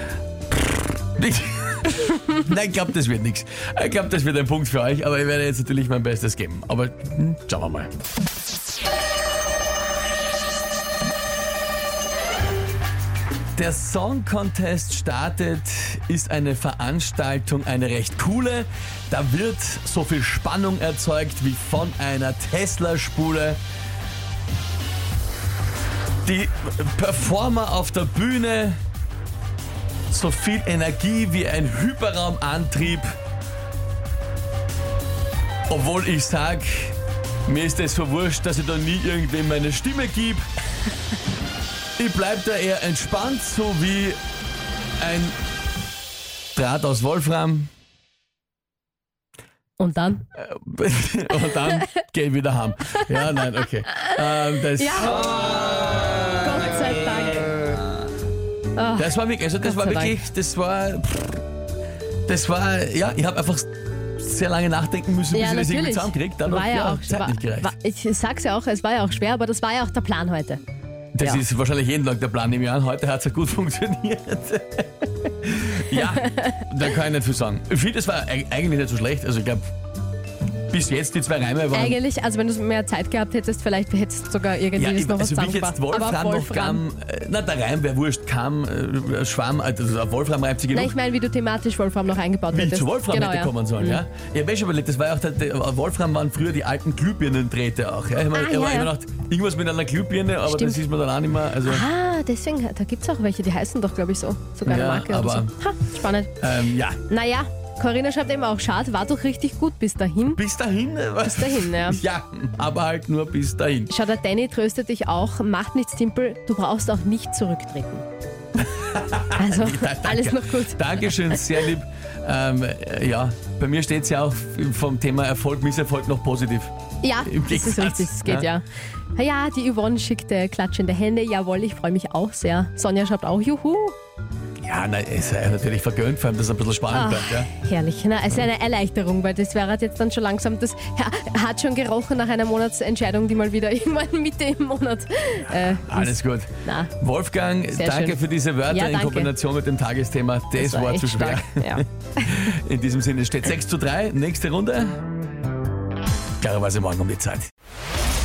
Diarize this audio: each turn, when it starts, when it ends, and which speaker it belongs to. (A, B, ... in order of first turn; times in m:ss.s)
0:00.5-0:07.9 A
0:13.6-0:23.6 A
0:26.2-0:28.8 A
0:30.1-0:33.2 A
0:35.7-0:37.0 A
0:37.5-0:40.4 A
0:42.0-0:44.2 A
0:45.0-0:45.4 A
0:46.5-0:47.7 A
0:49.8-0:50.2 B
0:50.3-0:56.1 A
0:51.4-0:51.8 B
0:53.0-0:53.4 B
0:54.7-0:55.3 B
0:56.4-0:57.7 B
0:58.7-1:00.2 B
0:59.0-1:01.4 A
1:02.3-1:07.7 A
1:05.3-1:10.6 B
1:11.1-1:19.6 A
1:16.0-1:16.6 B
1:20.7-1:22.0 A
1:21.7-1:26.8 B
1:24.7-1:30.9 A
1:30.7-1:34.0 B
1:32.5-1:41.9 A
1:38.3-1:38.9 B
1:40.4-1:40.8 B
1:41.6-1:46.3 B
1:44.6-1:45.5 A
1:46.4-1:47.0 A
1:47.1-1:50.4 B
1:50.2-1:53.9 A
1:51.2-1:52.0 B
1:53.9-1:58.0 B
1:58.6-2:06.7 A
1:59.3-2:01.4 B
2:07.0-2:14.0 B
2:07.2-2:08.5 A
2:14.6-2:17.5 A
2:16.9-2:26.9 B
2:25.4-2:35.0 A
2:27.7-2:29.3 B
2:30.6-2:32.4 B
2:36.4-2:37.5 A